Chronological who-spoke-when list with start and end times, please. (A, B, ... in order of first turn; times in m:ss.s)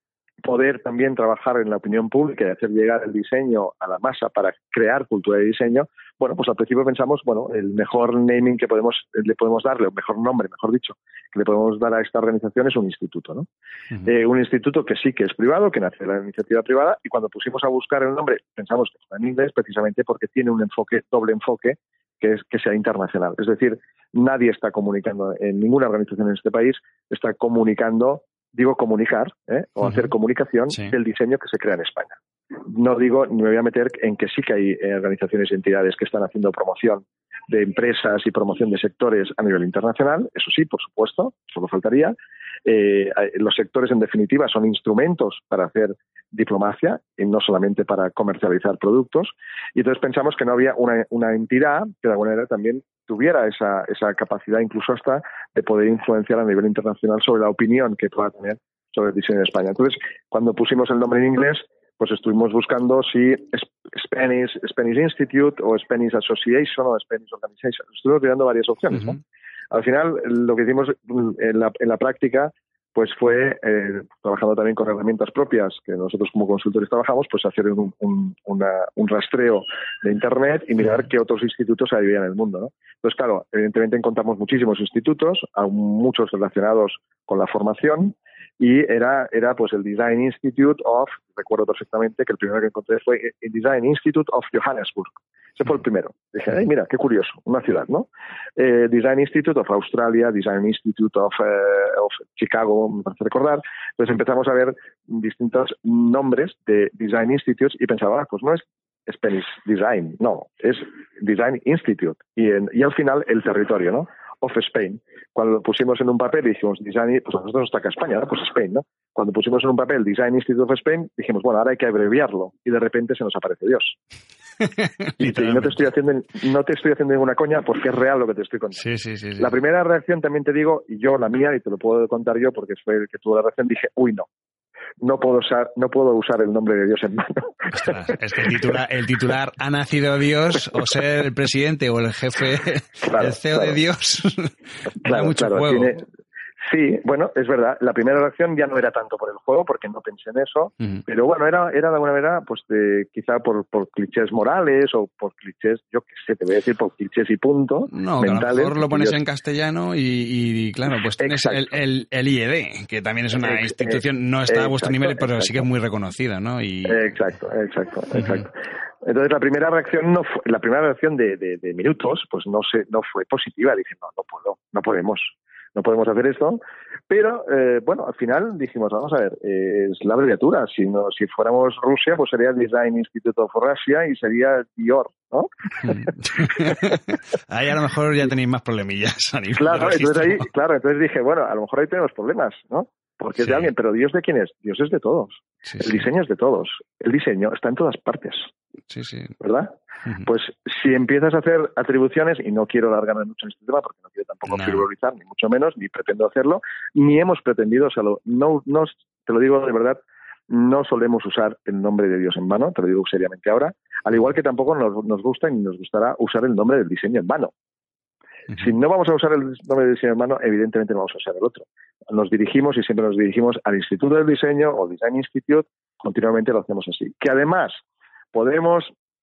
0:00.4-0:13.5 A
0:14.0-1:09.2 A
1:09.7-2:04.0 A
2:04.6-2:05.7 B
2:05.2-2:08.8 A
2:08.8-2:09.5 B
2:09.4-2:14.3 A
2:15.0-2:18.2 A
2:17.7-2:26.0 B
2:23.0-2:23.8 A
2:25.0-2:26.0 A
2:26.6-2:39.2 A
2:37.9-2:47.1 B
2:41.2-2:41.8 A
2:43.4-2:45.6 A
2:46.8-3:07.0 A
2:48.2-2:48.4 B
3:05.8-3:10.4 B
3:09.6-3:18.5 A
3:13.4-3:13.7 B
3:15.6-3:16.0 B
3:18.9-3:19.4 B
3:19.4-3:30.0 A
3:24.5-3:24.8 B
3:30.5-3:37.5 A
3:38.5-3:47.8 A
3:48.3-3:48.9 A